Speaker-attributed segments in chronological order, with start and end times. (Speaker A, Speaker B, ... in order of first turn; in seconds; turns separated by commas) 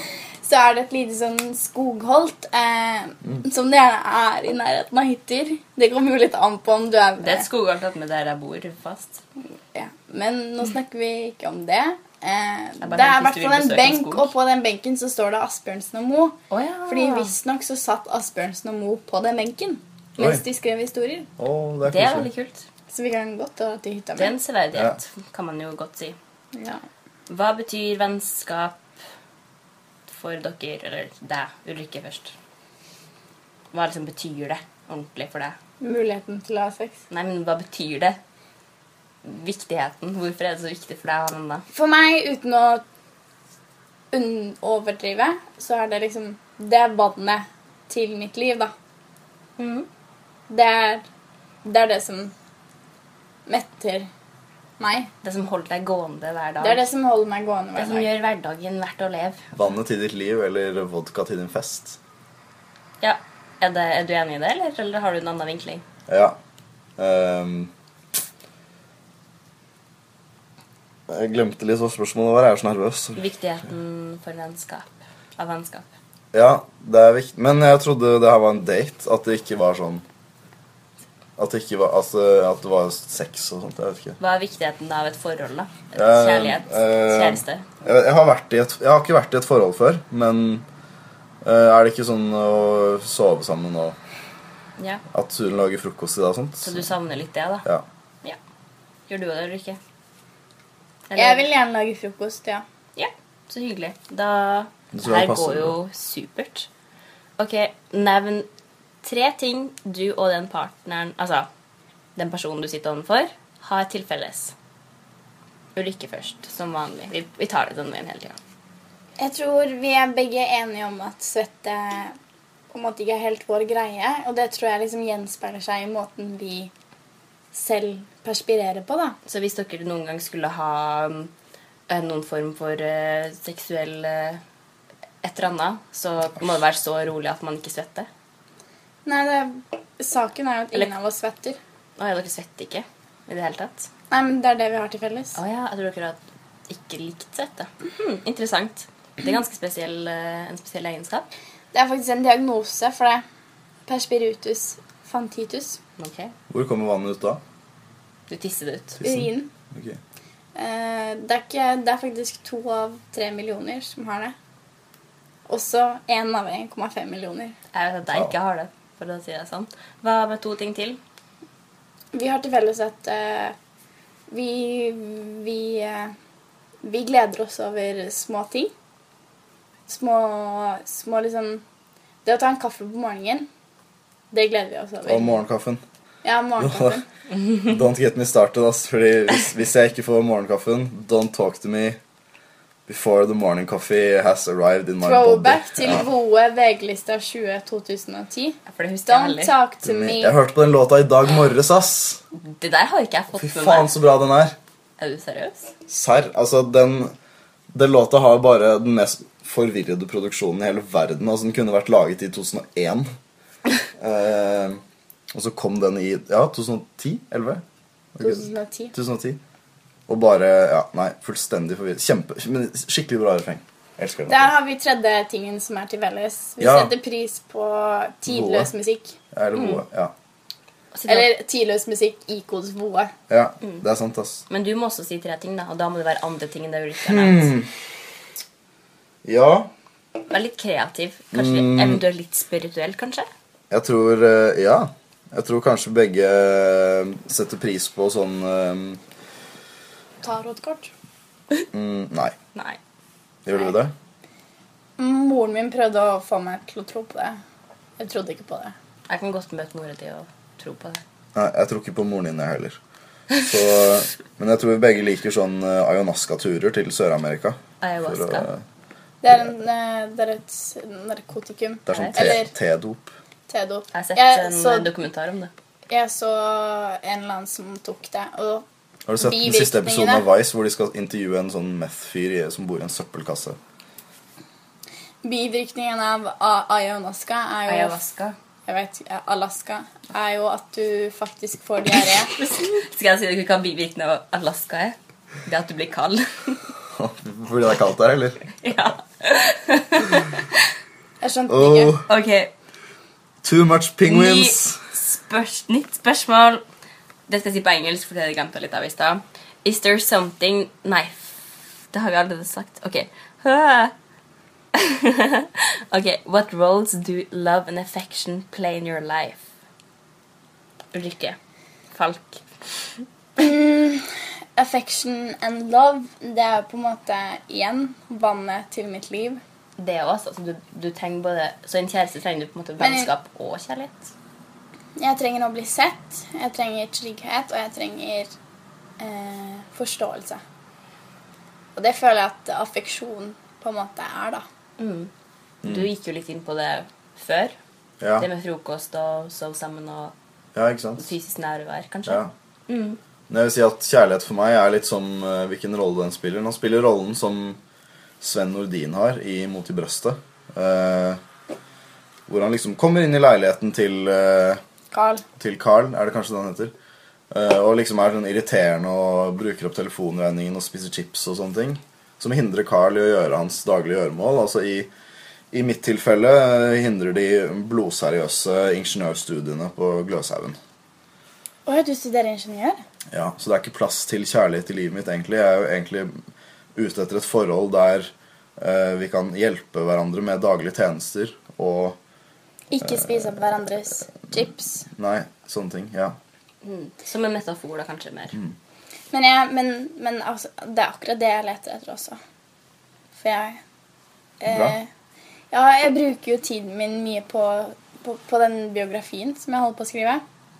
Speaker A: 0.4-7.5, Speaker B: 7.2-9.2, Speaker A: 9.7-16.4, Speaker B: 12.8-14.3, Speaker B: 16.5-17.3, Speaker A: 16.9-21.3, Speaker C: 20.2-20.4, Speaker C: 21.4-22.3, Speaker B: 21.8-22.6, Speaker A: 22.9-24.4, Speaker B: 24.2-26.1, Speaker A: 26.5-26.8, Speaker B: 27.3-28.8, Speaker B: 30.1-32.3, Speaker B: 33.7-35.5, Speaker A: 35.8-37.0, Speaker B: 37.1-38.2, Speaker B: 39.2-41.6, Speaker A: 41.7-42.8, Speaker A: 44.1-48.7, Speaker B: 49.6-49.9, Speaker A: 50.5-51.0, Speaker A: 51.6-52.3, Speaker A: 53.5-54.1, Speaker A: 54.8-55.1, Speaker B: 55.2-56.9, Speaker A: 56.6-58.1, Speaker B: 57.8-59.4, Speaker C: 59.5-62.0, Speaker B: 63.0-65.8, Speaker C: 66.1-66.4, Speaker C: 67.0-67.7, Speaker C: 71.1-73.2, Speaker B: 73.2-75.9, Speaker C: 76.3-80.0, Speaker C: 81.4-84.2, Speaker B: 84.2-87.7, Speaker C: 85.9-90.6, Speaker C: 91.4-94.0, Speaker B: 94.8-95.0, Speaker C: 95.1-96.8, Speaker B: 96.6-97.7, Speaker B: 99.1-99.8, Speaker B: 101.1-101.5, Speaker A: 101.2-102.6, Speaker B: 103.0-106.7, Speaker C: 104.9-105.7, Speaker B: 107.4-108.5, Speaker B: 109.0-111.5, Speaker B: 112.2-114.5, Speaker B: 115.7-118.4, Speaker A: 119.2-122.2, Speaker A: 122.7-126.7, Speaker A: 127.5-129.2, Speaker B: 129.2-131.3, Speaker B: 131.9-134.4, Speaker B: 135.2-138.1, Speaker A: 139.1-141.6, Speaker B: 142.0-143.9, Speaker A: 144.1-145.3, Speaker B: 145.3-146.2, Speaker B: 146.7-151.3, Speaker A: 151.7-153.2, Speaker A: 153.9-155.8, Speaker B: 156.0-156.3, Speaker C: 156.5-157.4, Speaker B: 158.3-159.0, Speaker C: 159.0-160.0, Speaker A: 159.0-159.5, Speaker A: 160.5-164.3, Speaker A: 165.5-167.5, Speaker B: 167.7-171.0, Speaker A: 172.1-173.5, Speaker A: 174.3-176.1, Speaker A: 176.8-178.7, Speaker A: 179.9-181.6, Speaker A: 182.2-183.5, Speaker A: 184.3-185.4, Speaker C: 185.1-185.8, Speaker A: 186.2-187.0, Speaker C: 186.6-187.0, Speaker C: 187.5-192.0, Speaker C: 192.9-196.0, Speaker A: 195.0-200.3, Speaker B: 198.7-199.6, Speaker C: 199.8-202.2, Speaker B: 202.3-203.9, Speaker C: 203.4-204.6, Speaker B: 205.0-205.7, Speaker C: 205.9-207.1, Speaker C: 207.7-213.1, Speaker C: 214.0-214.8, Speaker C: 215.3-217.6, Speaker C: 218.1-219.4, Speaker A: 218.2-218.9, Speaker C: 220.1-224.5, Speaker A: 224.3-229.2, Speaker C: 226.6-226.9, Speaker C: 228.3-228.7, Speaker C: 229.3-230.1, Speaker B: 229.6-229.8, Speaker B: 230.9-231.3, Speaker A: 231.1-233.1, Speaker C: 233.3-234.4, Speaker B: 234.5-237.5, Speaker C: 237.1-237.7, Speaker C: 239.2-239.7, Speaker B: 240.3-243.3, Speaker C: 241.3-242.0, Speaker C: 243.7-249.0, Speaker A: 250.2-250.9, Speaker C: 251.7-252.3, Speaker C: 253.4-253.9, Speaker A: 255.0-257.4, Speaker A: 258.0-258.7, Speaker B: 259.1-261.0, Speaker C: 261.3-262.8, Speaker C: 263.4-268.6, Speaker B: 267.8-268.5, Speaker A: 269.2-272.5, Speaker C: 271.9-273.1, Speaker B: 271.9-272.2, Speaker A: 273.5-274.9, Speaker B: 273.9-275.5, Speaker A: 275.9-278.6, Speaker C: 279.1-283.6, Speaker A: 279.2-280.2, Speaker A: 285.2-288.0, Speaker B: 287.7-288.3, Speaker A: 288.7-292.3, Speaker B: 292.3-296.6, Speaker C: 296.9-298.4, Speaker B: 298.6-300.7, Speaker A: 301.2-301.9, Speaker C: 301.5-302.0, Speaker B: 302.1-302.5, Speaker C: 303.4-304.8, Speaker B: 304.0-306.6, Speaker B: 307.3-313.9, Speaker B: 314.7-319.4, Speaker B: 320.9-321.4, Speaker B: 321.9-322.4, Speaker A: 323.4-329.4, Speaker B: 329.8-334.1, Speaker A: 332.8-333.1, Speaker A: 335.0-338.3, Speaker A: 339.0-340.4, Speaker A: 341.8-344.4, Speaker B: 344.8-345.1, Speaker C: 345.6-345.9, Speaker B: 345.6-347.5, Speaker C: 348.0-348.3, Speaker B: 348.2-350.1, Speaker C: 350.5-351.1, Speaker B: 351.0-353.0, Speaker C: 353.3-357.6, Speaker C: 358.2-361.2, Speaker C: 362.3-364.6, Speaker A: 364.9-365.2, Speaker C: 365.4-366.7, Speaker C: 367.3-374.9, Speaker C: 375.5-380.6, Speaker A: 381.6-382.8, Speaker C: 383.1-386.1, Speaker C: 386.7-392.0, Speaker A: 392.7-394.9, Speaker C: 394.9-396.2, Speaker B: 396.6-398.4, Speaker A: 399.1-402.2, Speaker A: 403.1-403.6, Speaker A: 404.4-404.9, Speaker C: 404.5-404.7, Speaker A: 405.5-410.2